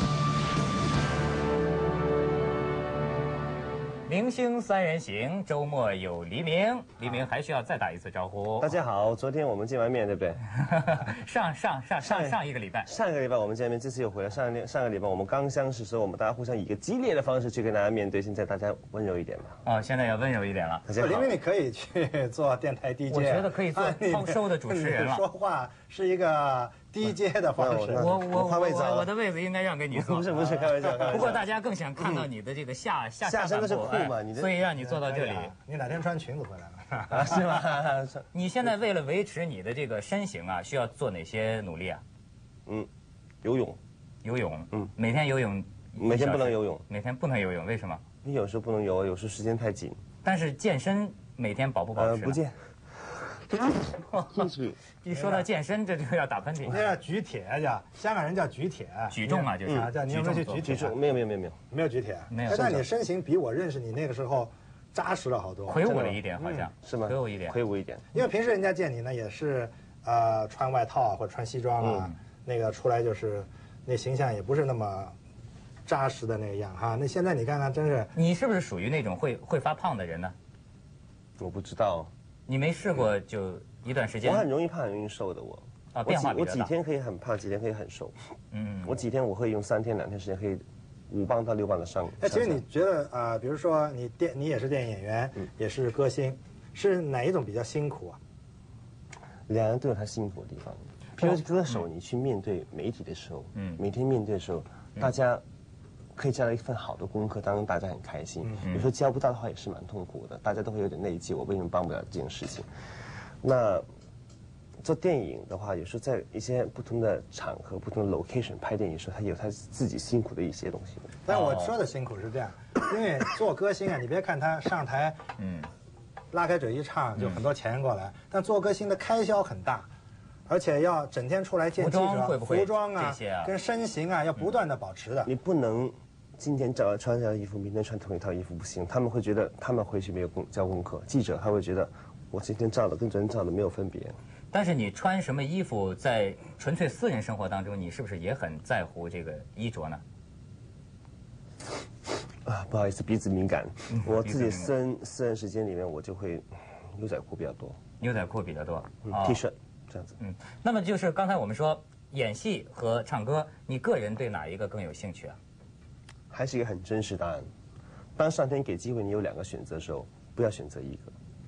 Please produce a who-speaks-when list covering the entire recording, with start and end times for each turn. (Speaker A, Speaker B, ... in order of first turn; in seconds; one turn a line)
Speaker A: 4.1-8.7
Speaker B: 8.6-10.4
Speaker A: 10.6-12.9
Speaker B: 12.0-19.6
Speaker A: 19.6-20.9
Speaker B: 20.9-21.3
Speaker C: 20.9-28.0
Speaker A: 23.1-25.2
Speaker B: 27.6-29.1
Speaker A: 27.9-30.3
Speaker B: 29.9-31.4
Speaker C: 30.3-31.2
Speaker A: 31.1-35.5
Speaker B: 32.0-32.2
Speaker B: 33.2-34.5
Speaker C: 34.8-37.6
Speaker B: 37.1-38.3
Speaker A: 38.3-42.0
Speaker B: 43.4-43.8
Speaker A: 44.2-48.0
Speaker B: 46.0-46.8
Speaker B: 48.2-50.0
Speaker A: 50.2-52.4
Speaker B: 52.0-52.5
Speaker A: 54.1-54.5
Speaker B: 54.3-54.8
Speaker A: 55.0-56.8
Speaker C: 55.1-55.4
Speaker C: 56.7-60.9
Speaker A: 59.1-60.7
Speaker B: 60.5-61.6
Speaker C: 61.7-66.6
Speaker A: 62.3-62.8
Speaker B: 62.5-62.8
Speaker A: 65.7-67.6
Speaker B: 65.8-66.2
Speaker B: 66.8-68.0
Speaker C: 68.1-75.1
Speaker B: 71.8-72.1
Speaker C: 75.9-78.1
Speaker A: 78.1-80.3
Speaker B: 81.4-82.1
Speaker A: 82.5-84.5
Speaker B: 84.2-88.1
Speaker A: 85.9-86.7
Speaker A: 88.5-88.9
Speaker B: 88.8-92.6
Speaker C: 92.2-98.2
Speaker B: 99.5-105.4
Speaker A: 103.5-103.8
Speaker B: 106.1-112.7
Speaker A: 108.6-108.9
Speaker B: 113.4-113.8
Speaker B: 114.8-121.1
Speaker C: 121.2-125.2
Speaker A: 121.3-121.7
Speaker A: 125.4-125.7
Speaker C: 126.3-129.9
Speaker C: 130.5-135.3
Speaker A: 131.8-133.5
Speaker B: 135.2-144.2
Speaker A: 144.5-150.0
Speaker B: 152.4-157.8
Speaker A: 153.9-154.7
Speaker A: 158.0-159.4
Speaker B: 159.1-160.1
Speaker A: 160.2-165.4
Speaker B: 166.3-167.4
Speaker B: 168.2-171.1